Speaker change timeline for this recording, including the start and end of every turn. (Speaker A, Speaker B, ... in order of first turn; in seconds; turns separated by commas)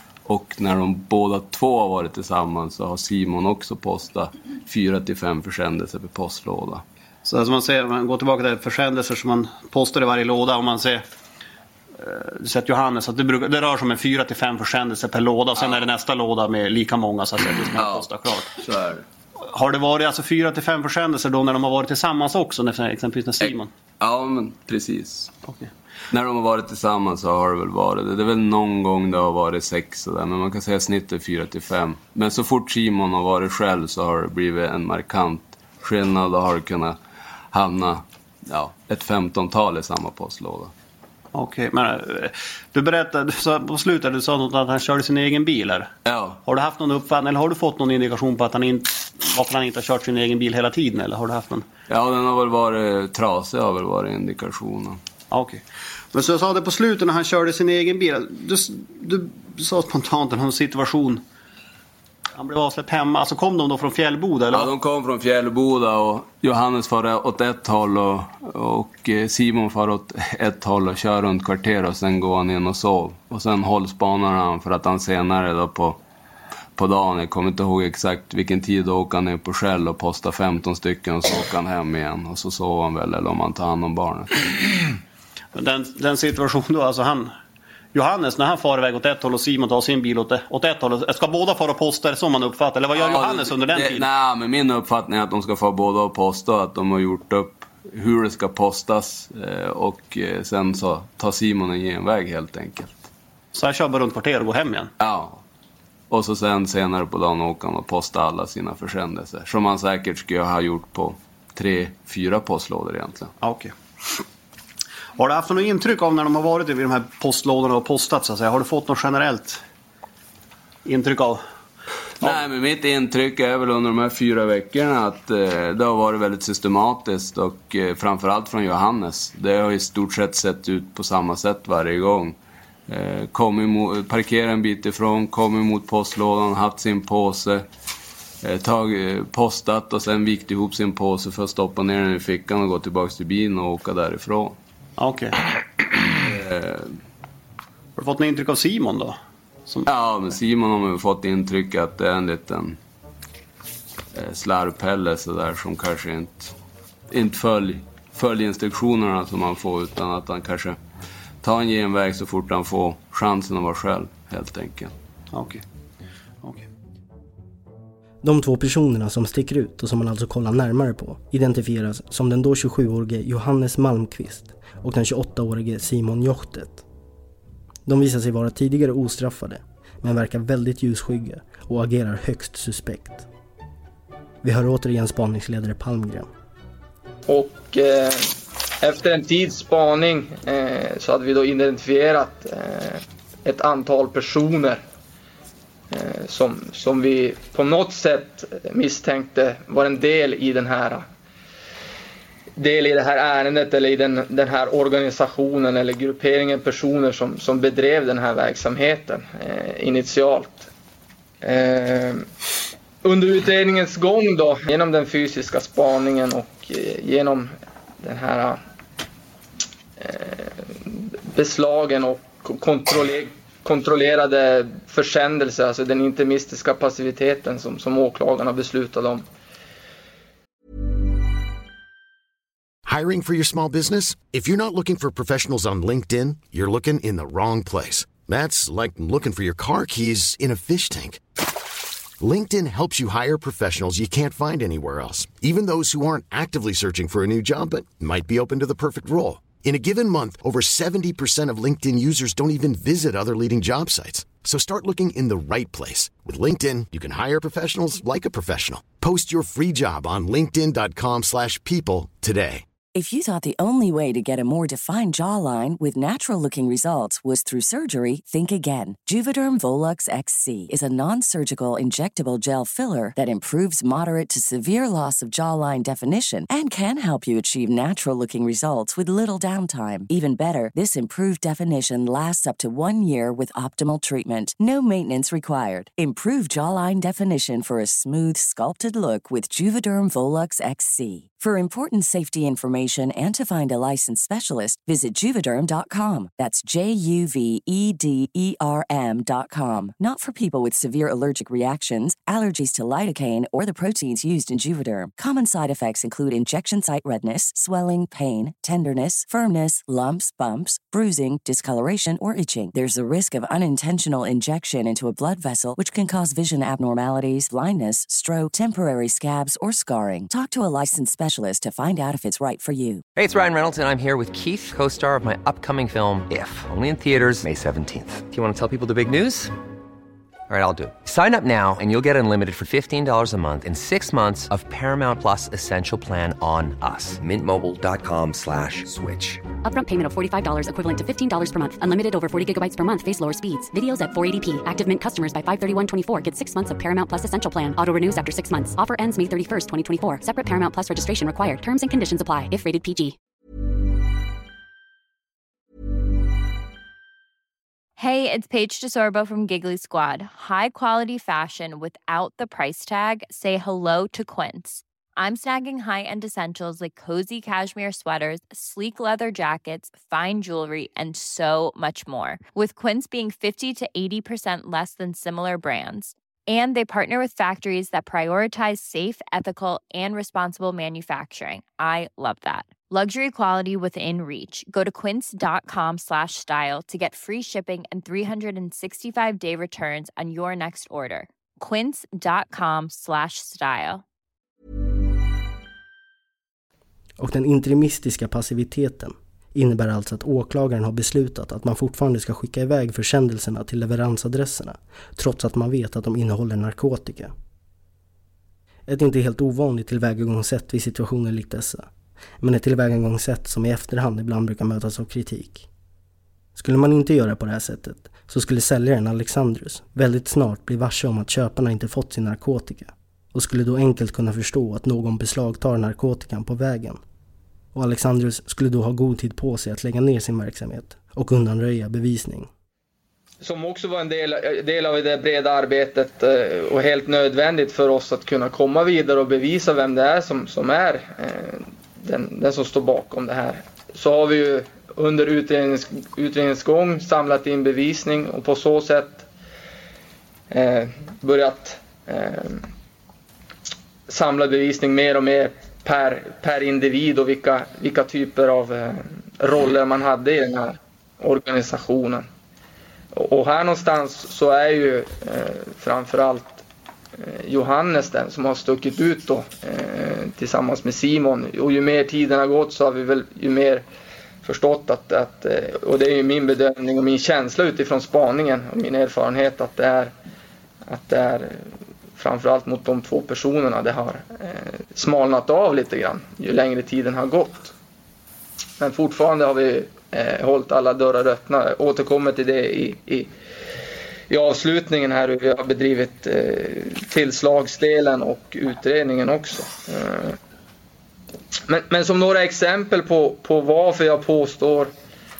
Speaker A: 0.3-6.8, Speaker B: 7.2-11.1, Speaker B: 12.0-18.5, Speaker A: 15.6-15.8, Speaker A: 17.7-19.1, Speaker B: 19.4-23.7, Speaker A: 23.4-25.4, Speaker B: 25.4-25.7, Speaker A: 26.1-37.0, Speaker A: 37.5-40.7, Speaker B: 41.3-45.9, Speaker A: 46.1-46.4, Speaker B: 46.5-51.7, Speaker A: 51.9-55.0, Speaker B: 55.3-61.2, Speaker B: 62.4-64.7, Speaker A: 64.5-76.0, Speaker A: 76.8-84.5, Speaker B: 85.5-87.3, Speaker B: 87.9-94.1, Speaker A: 93.0-103.1, Speaker B: 103.5-104.9, Speaker A: 105.0-105.4, Speaker A: 106.1-113.3, Speaker B: 113.4-113.8, Speaker B: 115.2-119.6, Speaker B: 120.8-121.4, Speaker A: 122.2-132.4, Speaker A: 132.9-137.7, Speaker A: 138.4-144.6, Speaker B: 145.0-145.4, Speaker A: 146.0-146.9, Speaker B: 148.0-149.9, Speaker A: 149.9-152.8, Speaker A: 154.1-156.6, Speaker A: 157.1-160.8, Speaker A: 161.4-164.9, Speaker B: 165.3-165.6, Speaker C: 168.2-176.8, Speaker C: 177.9-183.3, Speaker C: 184.4-186.3, Speaker D: 187.3-194.8, Speaker D: 195.9-201.1, Speaker D: 202.6-210.7, Speaker D: 211.4-212.3, Speaker D: 213.0-218.6, Speaker D: 220.0-229.3, Speaker E: 232.9-241.2, Speaker E: 242.2-262.6, Speaker F: 262.9-323.0, Speaker G: 323.1-329.5, Speaker G: 330.5-339.4, Speaker H: 339.6-353.2, Speaker I: 358.0-394.0, Speaker C: 397.2-407.3, Speaker C: 408.9-411.9, Speaker C: 412.4-415.7, Speaker C: 416.6-427.0, Speaker C: 427.7-432.5, Speaker D: 433.4-449.3, Speaker D: 450.5-452.7, Speaker D: 454.1-462.3, Speaker D: 463.1-466.6, Speaker D: 467.2-473.9, Speaker D: 474.4-480.1, Speaker D: 480.9-481.6, Speaker D: 482.2-487.7, Speaker D: 488.8-493.3, Speaker D: 494.3-500.4, Speaker D: 501.7-504.9